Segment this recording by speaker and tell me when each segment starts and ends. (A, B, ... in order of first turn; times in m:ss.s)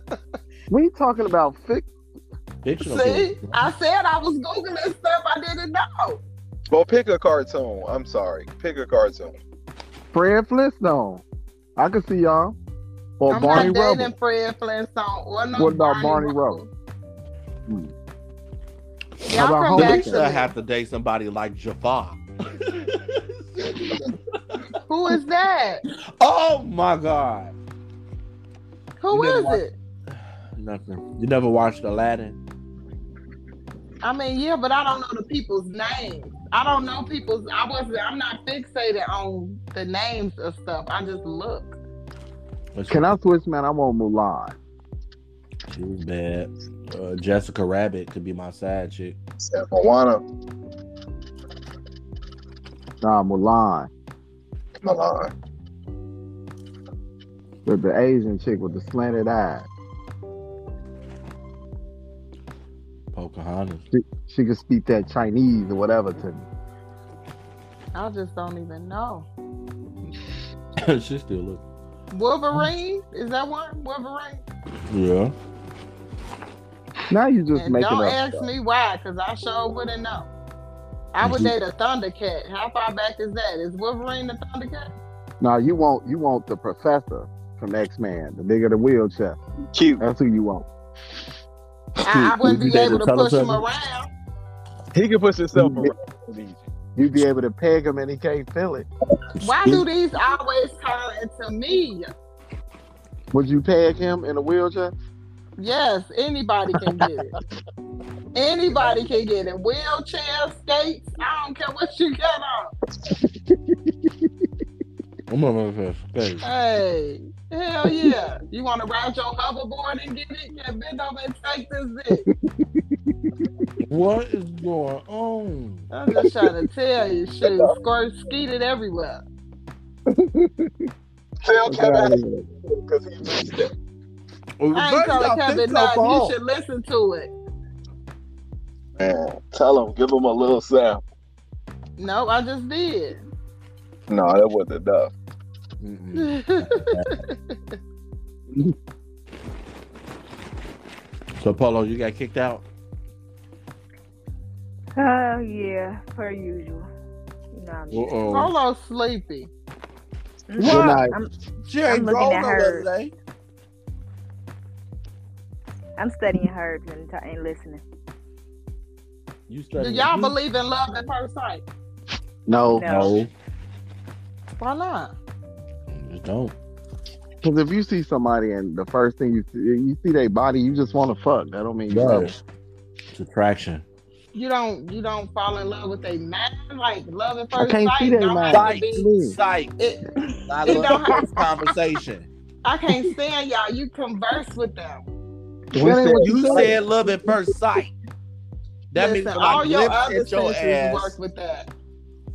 0:00.7-0:01.9 A
0:02.6-0:03.7 B
0:02.8-0:06.2 C
0:06.7-0:09.3 D
0:10.1-0:11.2 A
0:11.8-0:12.6 A
0:13.2-0:14.1 A
0:13.3-0:16.7 C
0:15.6-0:16.6 A
0:19.3-0:20.5 C
0:19.3-0:20.3 A
0:19.7-0:23.9 B
0:24.9-0:25.8 C
0:26.2-0:27.5 B
0:29.0-0:29.7 C
0:29.1-0:29.6 B
0:30.6-0:32.4 B
0:34.0-0:41.8 C
0:42.7-0:43.1 B
0:42.9-0:44.6 A
0:45.7-0:49.2 B
0:49.4-0:50.2 D
0:53.0-0:53.9 A
0:54.8-0:55.3 D
0:57.6-0:59.7 A
1:03.1-1:03.8 B
1:03.9-1:06.5 A
1:07.9-1:09.3 C
1:10.8-1:11.6 B
1:12.1-1:14.4 C
1:14.9-1:15.3 B
1:17.1-1:18.5 A
1:17.5-1:20.3 C
1:21.1-1:24.9 C
1:21.2-1:21.5 B
1:25.4-1:29.4 A
1:29.7-1:30.0 D
1:30.0-1:30.7 A
1:32.0-1:34.1 C
1:32.1-1:33.6 B
1:34.9-1:36.6 D
1:35.5-1:35.9 A
1:37.0-1:38.8 A
1:39.4-1:42.1 C
1:43.3-1:44.9 A
1:45.6-1:47.3 C
1:48.3-1:52.7 C
1:53.0-1:54.3 A
1:55.3-1:56.4 B
1:56.4-2:02.2 C
2:02.3-2:03.7 A
2:03.9-2:05.8 B
2:05.9-2:09.2 C
2:07.4-2:07.8 D
2:10.1-2:10.7 A
2:11.4-2:13.7 D
2:11.6-2:12.4 A
2:14.6-2:16.3 B
2:14.7-2:17.3 C
2:19.0-2:21.0 D
2:22.0-2:23.2 C
2:24.1-2:25.1 D
2:25.8-2:27.1 B
2:26.1-2:27.6 C
2:31.4-2:32.6 B
2:35.0-2:36.9 E
2:37.5-2:38.3 E
2:37.9-2:38.5 B
2:38.3-2:39.5 C
2:40.5-2:41.3 E
2:40.6-2:41.2 A
2:41.7-2:43.1 B
2:41.8-2:42.9 E
2:46.0-2:47.8 E
2:49.5-2:50.4 B
2:49.8-2:51.6 C
2:52.4-2:52.9 A
2:52.6-2:53.1 E
2:52.8-2:53.3 B
2:54.6-2:55.1 C
2:55.9-2:56.5 B
2:57.4-3:02.4 A
3:01.9-3:02.4 B
3:03.1-3:03.8 B
3:04.3-3:10.0 C
3:07.6-3:09.4 A
3:08.5-3:09.7 B
3:10.5-3:12.3 B
3:10.6-3:11.4 C
3:12.6-3:15.0 C
3:15.7-3:16.7 A
3:15.7-3:16.8 D
3:16.2-3:17.9 B
3:18.9-3:21.2 B
3:19.0-3:21.7 C